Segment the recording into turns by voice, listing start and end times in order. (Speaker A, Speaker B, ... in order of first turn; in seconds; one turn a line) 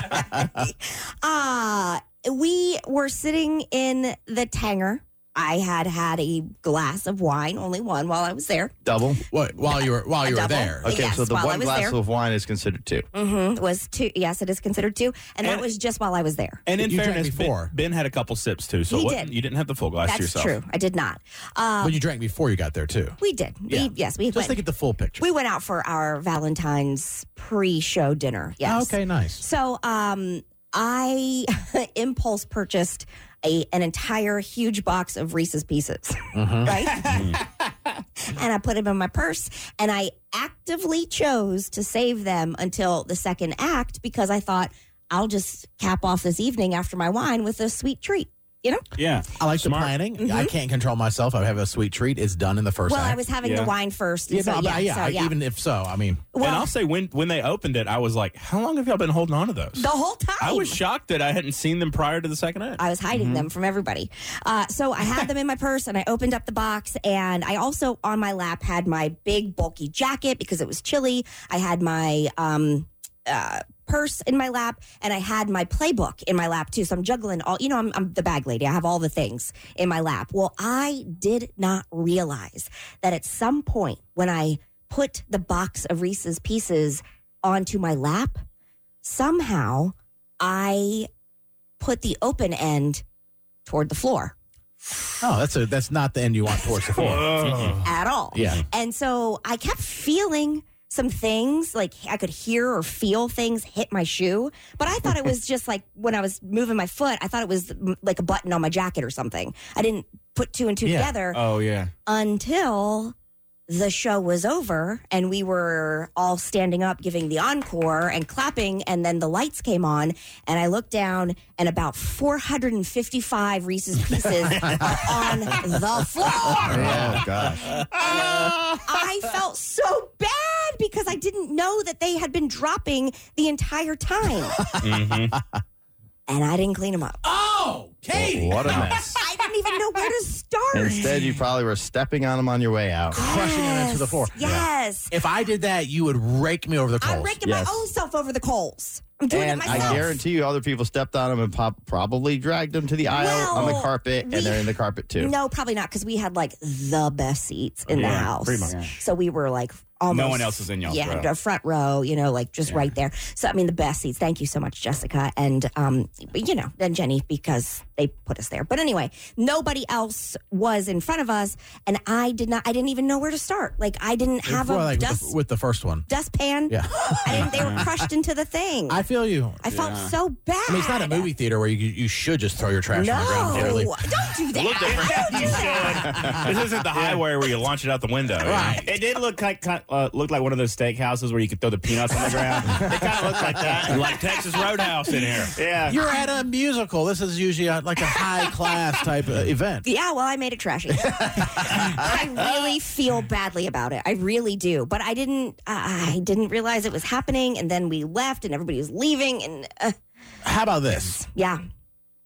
Speaker A: 0.2-8.7
Speaker B: 8.8-9.2
Speaker C: 9.3-11.0
Speaker A: 10.2-12.0
Speaker B: 10.8-13.1
Speaker A: 13.1-16.6
Speaker D: 15.4-15.7
Speaker D: 16.7-20.6
Speaker C: 16.8-17.7
Speaker A: 18.9-19.3
Speaker A: 20.0-22.0
Speaker C: 21.8-23.2
Speaker A: 23.2-24.6
Speaker C: 23.7-25.2
Speaker A: 25.2-37.2
Speaker C: 28.6-29.4
Speaker C: 36.3-36.8
Speaker A: 38.2-48.8
Speaker E: 49.0-49.4
Speaker C: 49.4-53.2
Speaker D: 49.6-50.0
Speaker A: 50.2-50.5
Speaker A: 52.9-55.3
Speaker D: 53.5-53.7
Speaker C: 54.3-56.2
Speaker A: 56.3-56.7
Speaker D: 56.4-63.5
Speaker A: 59.8-60.8
Speaker A: 62.8-88.4
Speaker A: 89.0-91.1
Speaker A: 91.8-93.0
Speaker A: 93.7-94.3
Speaker C: 95.2-97.7
Speaker D: 97.0-97.8
Speaker A: 97.4-111.4
Speaker C: 98.3-98.7
Speaker C: 110.9-111.1
Speaker E: 111.3-111.9
Speaker A: 112.1-113.1
Speaker A: 113.7-126.9
Speaker C: 126.5-127.2
Speaker B: 126.7-127.8
Speaker A: 128.0-134.8
Speaker C: 128.3-128.8
Speaker C: 134.6-135.6
Speaker D: 134.7-135.4
Speaker A: 136.3-137.2
Speaker C: 137.2-139.2
Speaker B: 138.1-139.2
Speaker A: 139.2-141.2
Speaker B: 140.7-143.2
Speaker C: 143.1-147.3
Speaker A: 143.1-145.1
Speaker A: 147.0-150.1
Speaker B: 147.4-147.8
Speaker B: 149.3-155.3
Speaker C: 149.7-150.1
Speaker A: 153.1-175.3
Speaker E: 157.9-158.9
Speaker D: 158.0-158.8
Speaker E: 160.1-161.3
Speaker C: 174.4-176.1
Speaker A: 176.1-179.1
Speaker C: 176.7-178.0
Speaker E: 177.5-177.8
Speaker C: 178.9-179.6
Speaker A: 179.6-181.3
Speaker E: 179.7-180.1
Speaker C: 180.7-183.9
Speaker A: 182.9-186.3
Speaker D: 183.5-183.9
Speaker D: 184.5-188.9
Speaker E: 184.9-187.3
Speaker C: 188.4-188.9
Speaker E: 188.8-194.4
Speaker D: 193.6-195.6
Speaker E: 195.4-196.0
Speaker C: 195.9-199.9
Speaker A: 199.8-209.9
Speaker C: 201.2-201.8
Speaker C: 210.4-211.2
Speaker A: 210.9-211.6